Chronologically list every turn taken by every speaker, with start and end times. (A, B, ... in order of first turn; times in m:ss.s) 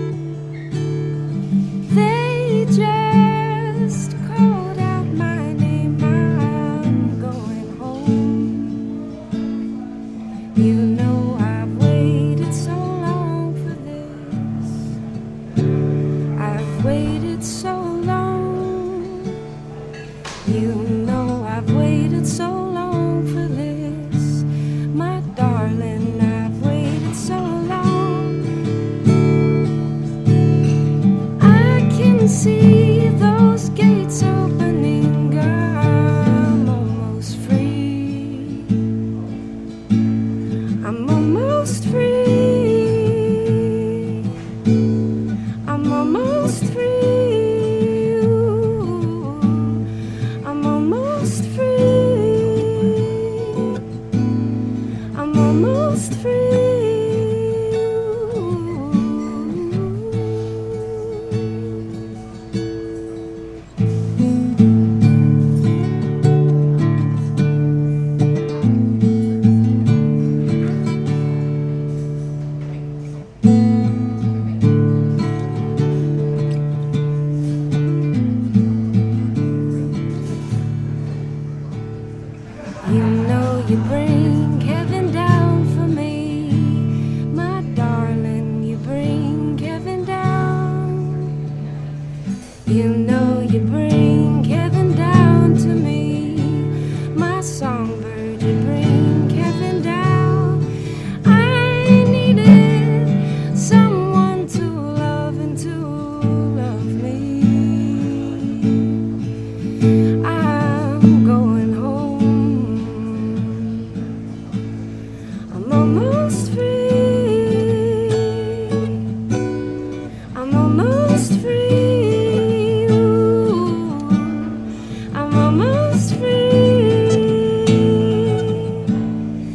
0:01.8-0:08.9 A
0:10.5-0:14.8 A
0:16.4-0:19.4 A
0:20.4-0:28.4 A
0:31.4-0:38.7 A
0:40.8-0:44.2 A
0:45.6-0:49.8 A
0:50.4-0:53.8 A
0:55.1-1:01.6 A
1:22.8-1:31.2 A
1:32.6-1:40.6 A
1:41.2-1:48.9 A
1:50.2-1:54.0 A
1:55.5-1:59.0 A
2:00.3-2:08.8 A